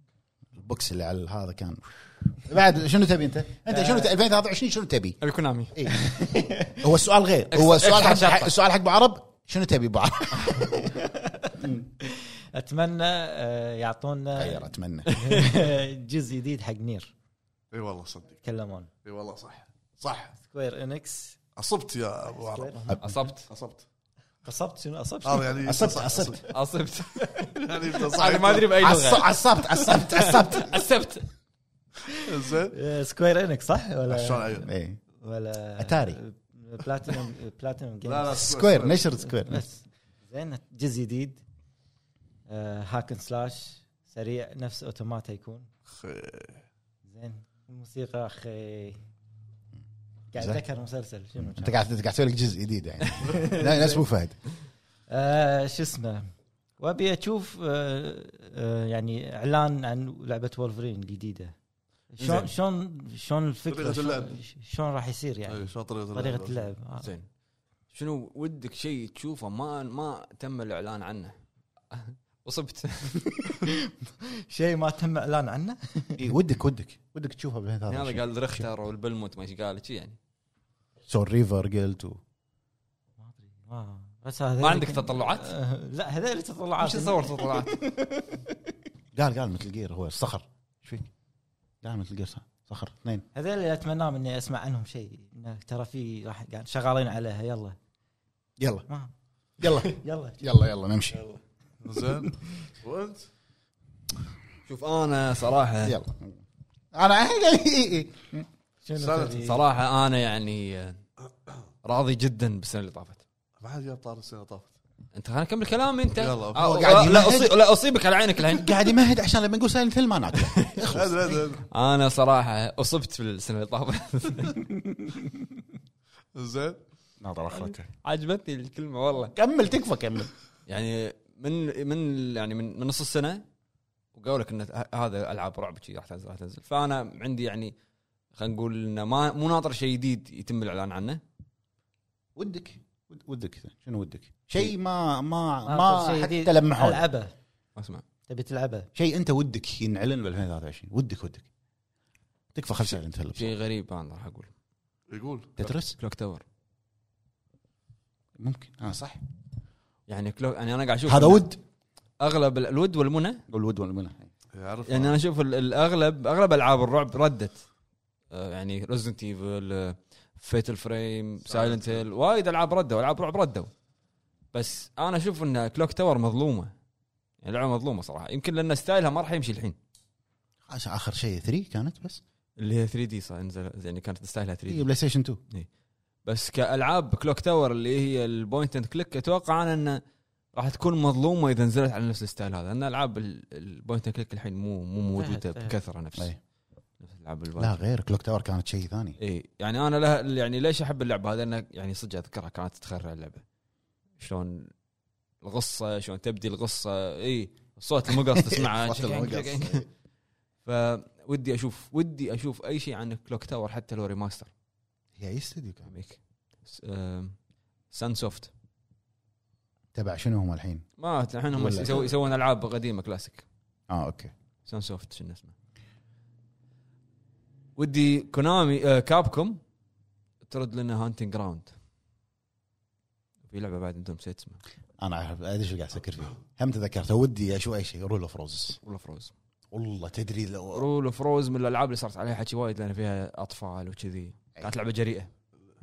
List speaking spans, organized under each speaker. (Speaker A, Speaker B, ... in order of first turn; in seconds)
Speaker A: 0.6-5.2, 5.7-10.9, 11.6-11.8, 14.4-15.4, 22.9-23.1, 25.6-26.4, 28.8-30.8, 34.6-35.0, 35.8-36.2, 38.3-39.6, 51.4-54.5, 76.2-78.7, 81.0-82.2, 89.1-91.1, 91.8-93.2, 98.6-98.8, 99.6-101.2, 105.8-106.4, 106.9-108.5, 116.6-117.6, 118.5-121.2, 127.2-127.9, 129.3-130.3, 142.3-147.1, 148.9-151.4, 152.5-153.5, 155.6-155.9, 158.4-159.2, 161.1-161.6, 163.5-164.3, 180.7-182.2, 184.7-185.4, 197.6-199.2, 208.3-209.8, 215.2-215.9, 219.9-220.8, 221.5-222.1, 223.9-224.3, 235.0-238.8, 239.7-240.8
Speaker B: 3.7-4.1, 6.3-6.7, 10.4-17.1, 18.4-18.9, 20.4-21.4, 22.4-23.2, 24.4-25.6, 32.7-34.7, 35.2-38.4, 39.2-41.4, 42.5-45.7, 47.0-49.0, 50.3-51.8, 53.3-54.0, 55.1-61.5, 62.1-67.1, 74.5-76.2, 83.2-88.5, 93.3-97.8, 98.9-100.5, 108.8-109.7, 145.7-147.3, 148.3-148.9, 195.1-195.8
Speaker C: 5.2-5.8, 7.5-8.5, 23.0-23.4, 26.5-27.5, 28.1-31.2, 62.2-62.5, 67.0-67.3, 67.9-71.3, 71.9-73.2, 77.9-80.2, 84.6-85.5, 86.8-87.8, 104.7-106.0, 109.4-111.0, 111.8-113.2, 115.1-118.7, 120.4-120.7, 121.7-124.6, 128.0-129.3, 130.7-133.4, 134.1-137.7, 138.3-141.2, 147.8-148.0, 152.9-154.5, 155.6-156.4, 160.1-161.5, 162.2-163.4, 164.9-167.6, 168.3-173.7, 174.5-176.7, 177.4-179.8, 182.6-184.9, 186.2-190.0, 190.5-196.3, 197.0-197.8, 199.2-203.4, 204.2-204.7, 205.4-209.8, 210.6-214.5, 215.9-217.4, 217.9-218.5, 221.0-223.4, 224.6-225.5, 227.8-229.6, 230.4-231.7, 233.5-234.6, 238.8-239.3, 240.7-245.3
Speaker D: 17.7-18.4, 19.0-20.3, 21.6-22.7, 23.5-23.8, 25.2-26.4, 27.6-28.7, 32.2-32.8, 34.1-34.7, 38.0-39.1, 45.9-46.6, 62.2-62.5, 63.7-64.4, 65.5-66.6, 101.8-103.3, 109.0-109.4, 113.6-114.7, 116.1-116.7, 120.9-121.6, 126.3-126.8, 155.1-155.5, 164.5-165.2, 171.4-172.1